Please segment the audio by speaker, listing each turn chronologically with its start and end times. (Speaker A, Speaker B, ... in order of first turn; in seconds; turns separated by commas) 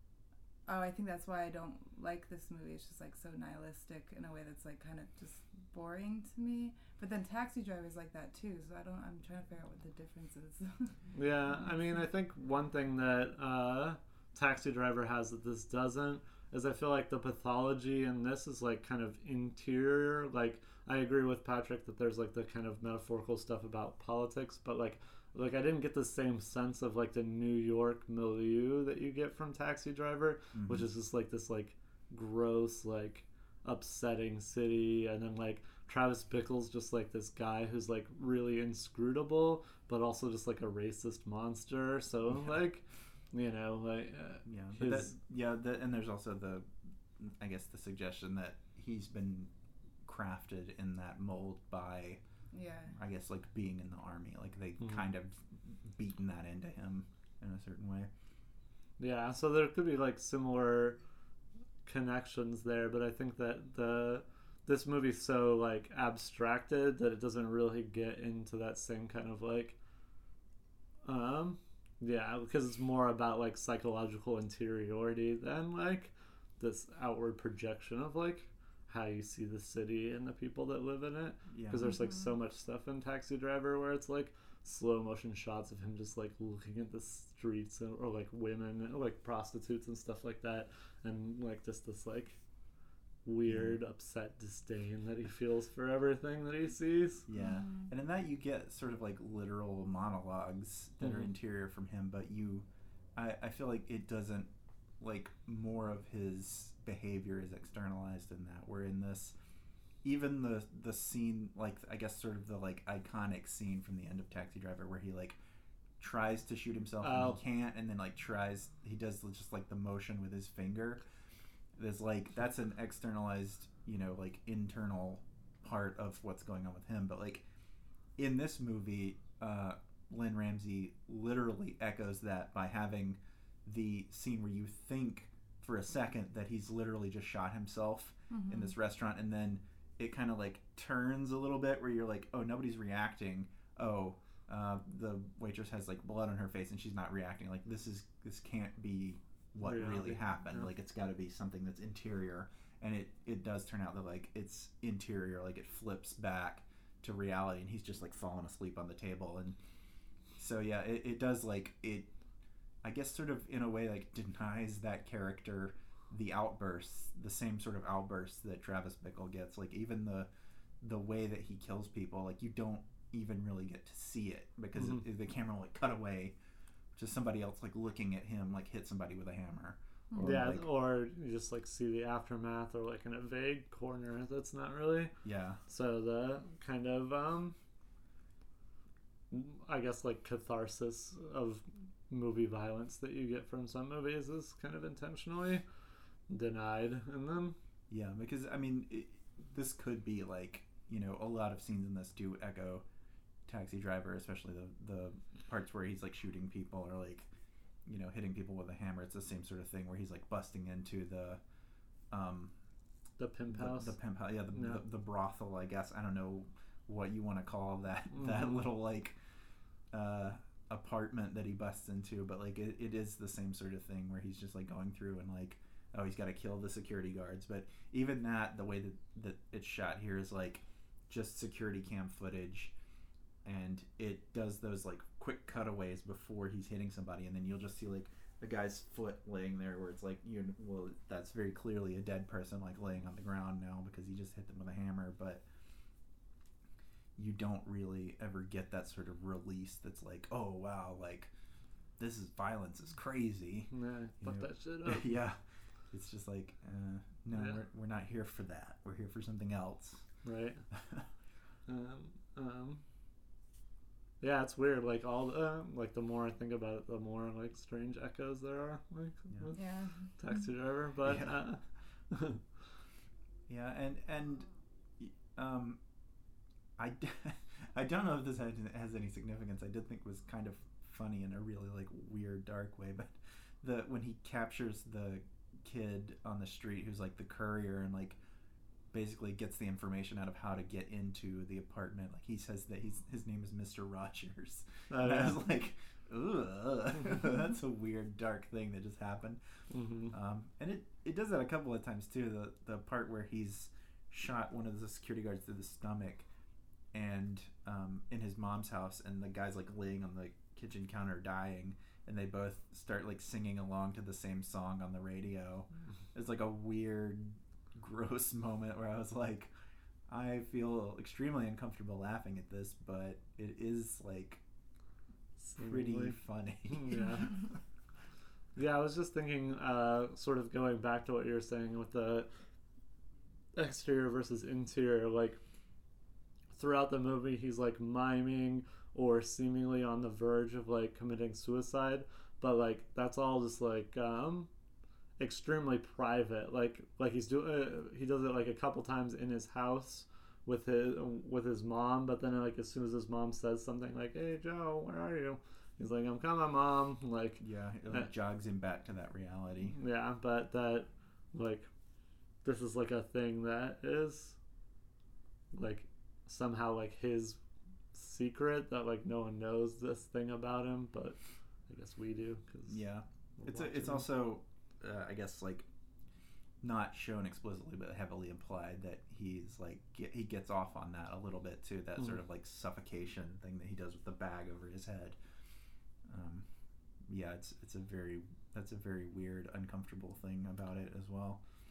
Speaker A: 0.7-10.9, Speaker B: 11.1-45.1, Speaker A: 11.5-12.0, Speaker C: 30.5-30.9, Speaker C: 44.5-49.5, Speaker C: 50.0-52.2, Speaker A: 52.5-52.9, Speaker C: 52.9-58.1, Speaker B: 59.0-61.0, Speaker B: 61.9-69.8, Speaker B: 71.0-92.4, Speaker C: 81.5-81.9, Speaker A: 81.8-82.3, Speaker B: 93.2-97.3, Speaker C: 93.5-93.8, Speaker C: 97.3-109.3, Speaker A: 97.3-97.9, Speaker B: 101.0-101.3, Speaker C: 110.0-115.4, Speaker C: 116.0-121.0, Speaker B: 117.0-117.4, Speaker C: 121.8-127.5, Speaker C: 128.2-159.6, Speaker A: 138.3-138.7, Speaker B: 149.6-150.2, Speaker C: 160.4-162.1, Speaker C: 162.8-170.3, Speaker C: 170.8-176.4, Speaker B: 174.8-175.0, Speaker C: 177.0-180.7, Speaker A: 180.1-180.5, Speaker B: 180.2-185.1, Speaker C: 185.2-185.6, Speaker B: 185.7-187.6, Speaker B: 189.3-195.6, Speaker B: 196.3-197.6, Speaker C: 197.9-202.8, Speaker C: 203.5-207.3, Speaker C: 207.9-211.4, Speaker C: 212.1-212.5, Speaker B: 213.2-214.0, Speaker C: 213.5-219.2, Speaker B: 214.5-214.8, Speaker B: 218.1-218.6, Speaker C: 219.9-232.7, Speaker C: 233.4-245.4, Speaker C: 247.2-251.3, Speaker C: 252.0-260.0, Speaker B: 253.7-255.2, Speaker B: 260.2-260.6, Speaker C: 260.7-261.1, Speaker B: 261.7-262.8, Speaker B: 264.2-272.4, Speaker A: 269.6-270.1, Speaker C: 271.0-271.4, Speaker C: 273.5-275.8, Speaker C: 276.8-288.2, Speaker C: 288.9-299.4, Speaker B: 294.9-295.4, Speaker B: 299.7-300.1, Speaker C: 300.1-306.3, Speaker C: 306.9-319.5, Speaker C: 320.1-324.4, Speaker B: 325.4-326.2, Speaker C: 325.6-327.5, Speaker B: 326.7-327.3, Speaker B: 328.6-332.3, Speaker B: 333.5-335.4, Speaker B: 336.5-344.5, Speaker B: 345.2-358.1, Speaker C: 357.4-359.8, Speaker B: 359.7-361.7, Speaker B: 362.4-364.4, Speaker B: 365.5-367.4, Speaker B: 367.9-372.8, Speaker C: 372.7-375.7, Speaker B: 373.4-374.1, Speaker C: 376.6-385.2, Speaker C: 386.1-386.5, Speaker C: 387.0-391.4